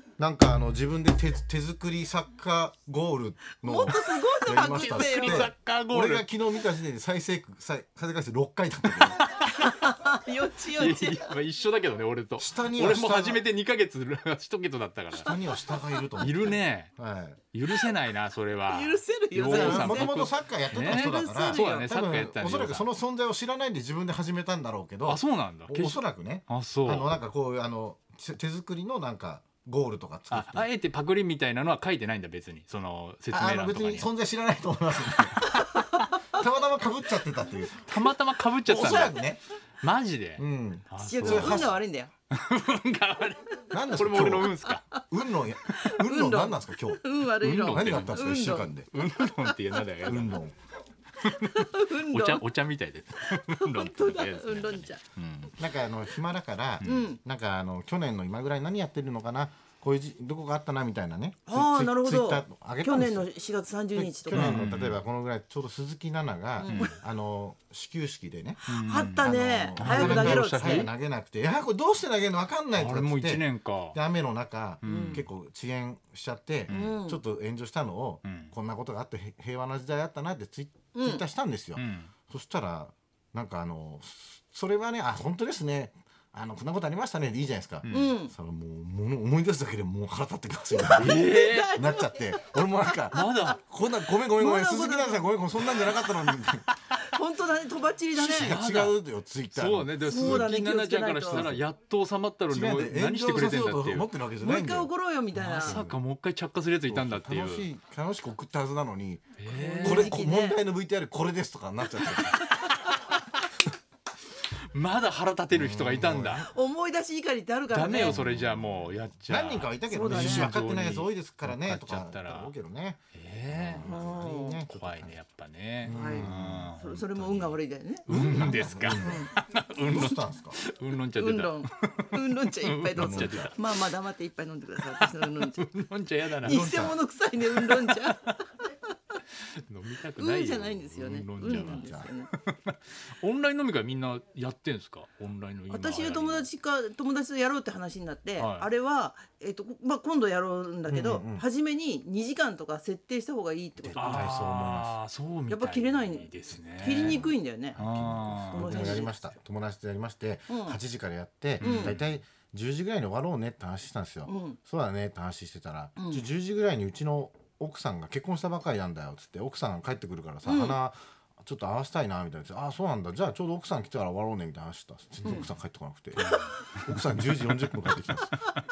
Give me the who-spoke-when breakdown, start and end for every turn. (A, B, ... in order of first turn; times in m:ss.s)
0:00.2-0:09.3 A
0:03.6-0:05.5 B
0:04.5-0:06.2 C
0:09.4-0:09.6 C
0:09.4-0:11.3 B
0:10.7-0:15.4 C
0:12.4-0:13.4 A
0:15.1-0:17.4 A
0:16.2-0:16.9 C
0:17.5-0:22.8 C
0:18.7-0:20.2 B
0:19.5-0:30.7 A
0:20.8-0:21.9 B
0:25.0-0:27.2 C
0:30.3-0:34.1 C
0:33.3-0:37.9 A
0:37.8-0:39.2 C
0:38.6-0:39.4 A
0:39.8-0:41.7 C
0:40.4-0:41.8 A
0:41.0-0:42.1 B
0:42.3-0:44.9 C
0:43.7-0:48.9 A
0:44.7-0:45.0 B
0:45.7-0:48.7 B
0:47.4-0:48.3 C
0:48.9-0:50.4 C
0:50.0-0:50.5 A
0:51.2-0:55.6 C
0:51.2-0:52.4 B
0:53.2-0:55.0 B
0:55.6-1:03.3 A
0:56.8-0:57.2 B
1:01.5-1:04.6 B
1:03.9-1:36.8 A
1:04.3-1:05.0 C
1:06.6-1:07.0 B
1:06.6-1:06.9 C
1:08.7-1:10.9 C
1:08.7-1:10.9 B
1:12.7-1:14.0 C
1:14.8-1:15.2 C
1:14.8-1:15.2 B
1:16.7-1:16.9 C
1:16.7-1:17.2 B
1:18.2-1:18.5 C
1:20.9-1:21.2 B
1:21.8-1:22.1 C
1:27.8-1:28.1 C
1:27.9-1:28.3 B
1:30.7-1:32.6 B
1:31.0-1:31.8 C
1:33.1-1:33.6 C
1:34.4-1:36.1 B
1:36.9-1:38.5 B
1:38.1-1:40.5 A
1:38.2-1:39.0 C
1:39.5-1:44.1 C
1:40.0-1:41.5 B
1:41.3-1:41.6 A
1:42.5-1:44.9 A
1:44.4-1:45.8 B
1:45.4-1:47.7 C
1:45.5-1:46.0 A
1:46.9-1:52.4 A
1:49.4-1:50.2 C
1:49.5-1:50.6 B
1:52.6-1:52.9 B
1:53.1-1:53.4 C
1:54.7-1:56.5 C
1:55.5-1:56.5 A
1:56.4-1:58.2 B
1:57.7-2:02.5 C
1:58.0-2:05.2 A
1:59.9-2:00.5 B
2:03.1-2:03.9 C
2:03.8-2:04.6 B
2:04.7-2:07.4 C
2:05.8-2:07.5 A
2:05.9-2:09.3 B
2:08.0-2:13.7 C
2:08.1-2:09.3 A
2:09.8-2:10.6 A
2:11.1-2:15.7 B
2:12.9-2:13.5 A
2:14.9-2:18.3 C
2:16.3-2:18.7 B
2:19.4-2:26.5 C
2:20.2-2:22.3 B
2:21.5-2:22.1 A
2:25.7-2:34.3 B
2:28.4-2:28.7 C
2:30.9-2:31.4 A
2:33.8-2:35.0 A
2:34.0-2:37.2 C
2:35.5-2:37.8 B
2:36.8-2:58.4 A
2:37.8-2:39.1 C
2:38.5-2:39.2 B
2:40.5-2:40.8 B
2:41.6-2:42.1 C
2:41.6-2:41.9 B
2:44.2-2:44.6 B
2:46.0-2:46.2 B
2:50.4-2:50.8 B
2:56.2-2:56.6 B
2:56.3-2:57.9 C